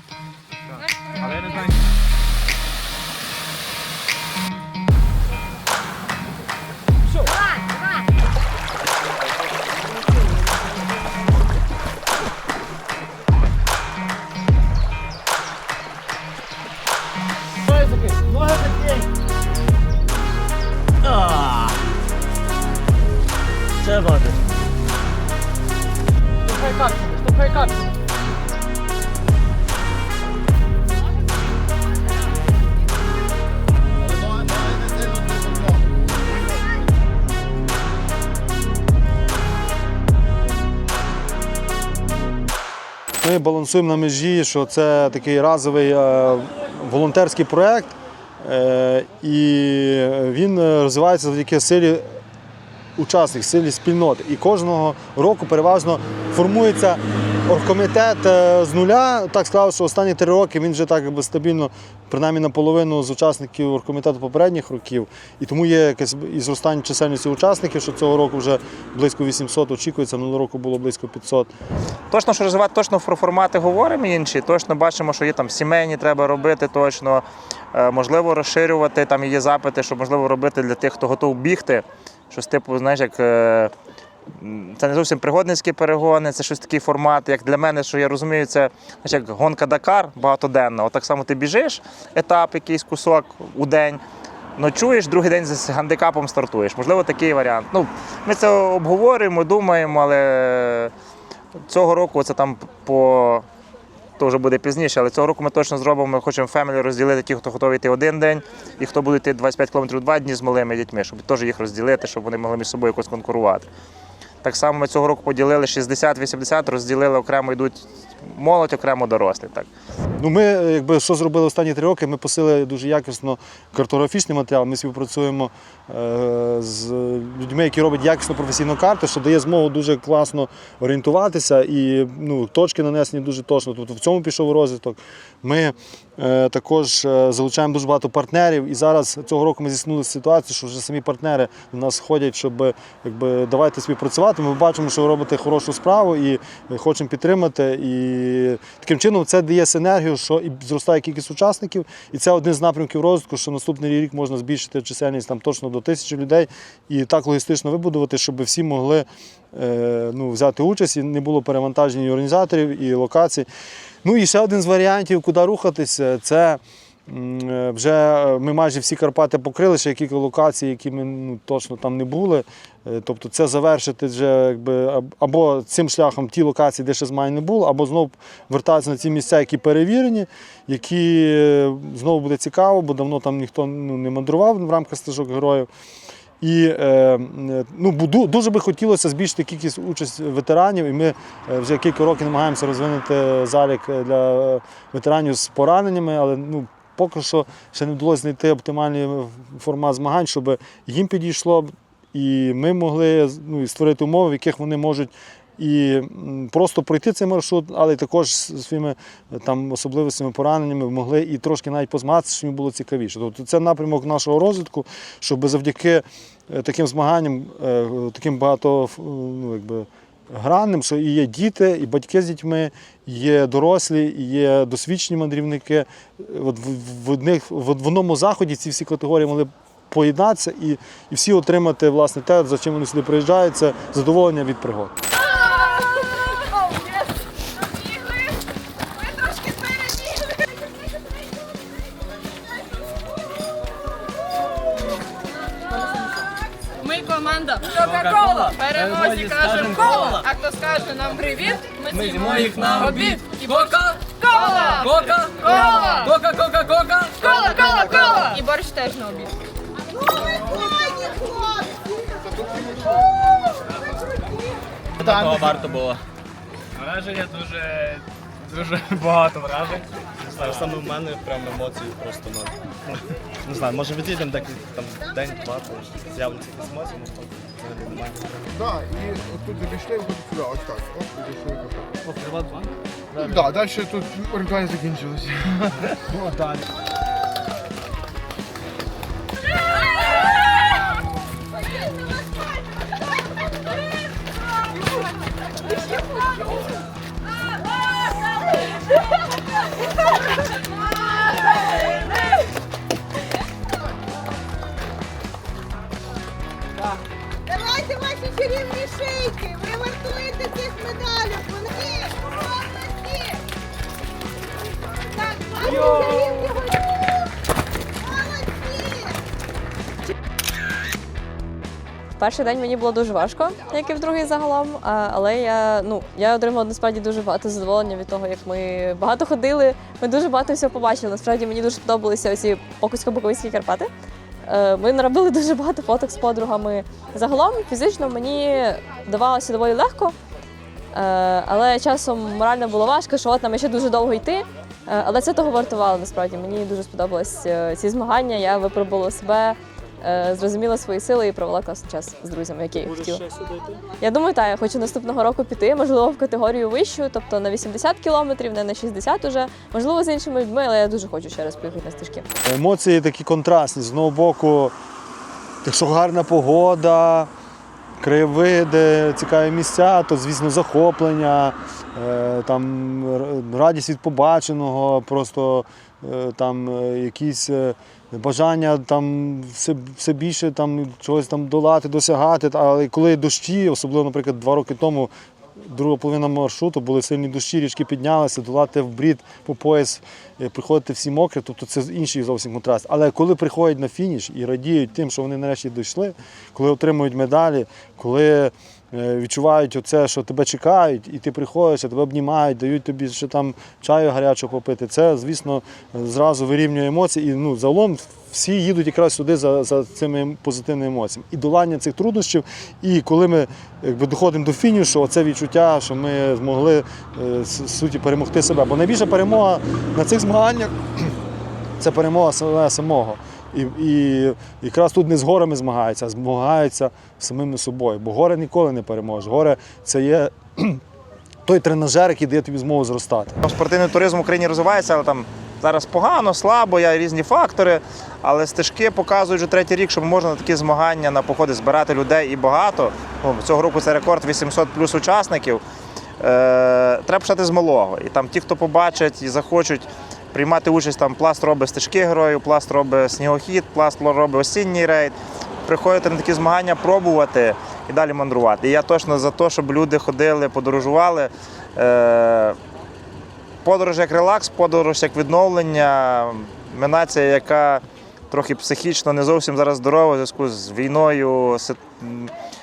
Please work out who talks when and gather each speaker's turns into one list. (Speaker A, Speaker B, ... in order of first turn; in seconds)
Speaker A: 1.1-1.6, 246.8-256.1, 257.2-259.3
Speaker B: 43.2-52.0, 53.0-71.5, 120.2-163.5, 164.0-185.7, 186.4-234.9, 353.0-353.6, 362.4-364.7, 365.6-367.3, 368.0-421.1, 421.8-430.8, 431.4-433.4
Speaker C: 72.1-83.7, 84.3-94.0, 94.6-100.9, 101.7-103.4, 104.2-113.7, 114.4-119.7, 433.4-445.6, 446.2-462.6, 463.6-472.3
Speaker D: 247.8-250.2, 251.9-253.1, 256.0-257.0, 265.0-266.0, 266.8-278.3, 282.2-282.7
Speaker E: 262.3-262.8, 278.5-281.9, 283.1-286.3
Speaker F: 322.2-333.9, 334.4-340.1, 340.9-353.2, 354.0-362.3